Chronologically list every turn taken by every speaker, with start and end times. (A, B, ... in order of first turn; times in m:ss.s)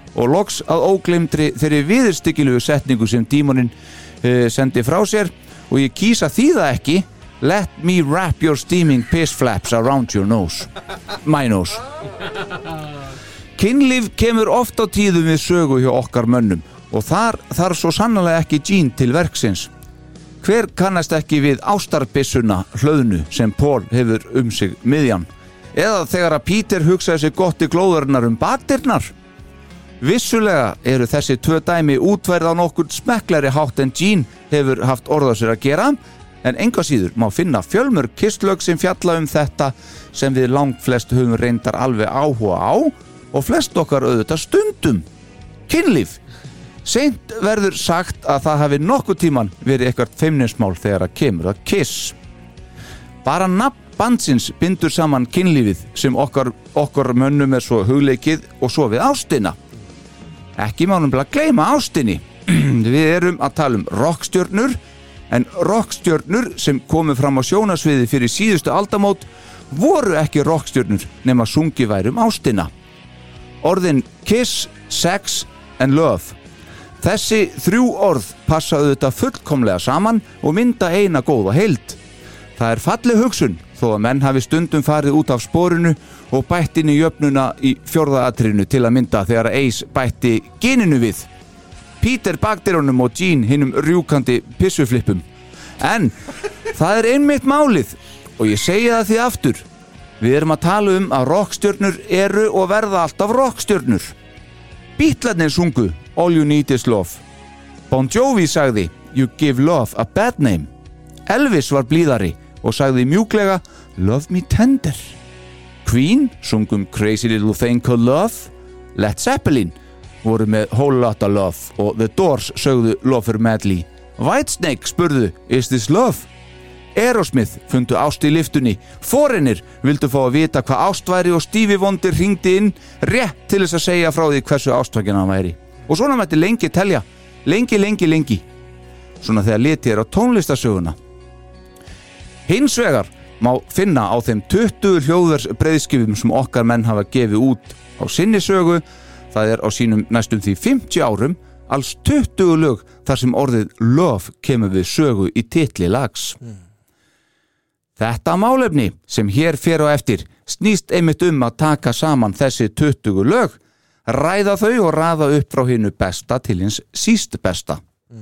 0:00.1-0:10.7 A
0:11.2-0:11.8 A
0:13.6-0:19.7 A
0:20.4-0:29.1 A
0:30.0-0:45.1 A
0:45.7-0:46.2 A
0:46.8-0:52.2 A
0:53.2-0:59.6 A
1:00.6-1:04.8 A
1:05.3-1:12.7 A
1:13.6-1:16.4 A
1:17.0-1:22.0 A
1:22.6-1:31.3 A
1:32.0-1:35.2 A
1:35.8-1:36.2 A
1:36.7-1:39.6 A
1:40.2-1:44.2 A
1:45.0-1:47.2 A
1:47.9-1:50.7 A
1:51.3-1:55.2 A
1:55.8-2:06.3 A
2:07.0-2:18.4 A
2:19.2-2:21.0 A
2:22.5-2:36.4 A
2:38.0-2:47.8 A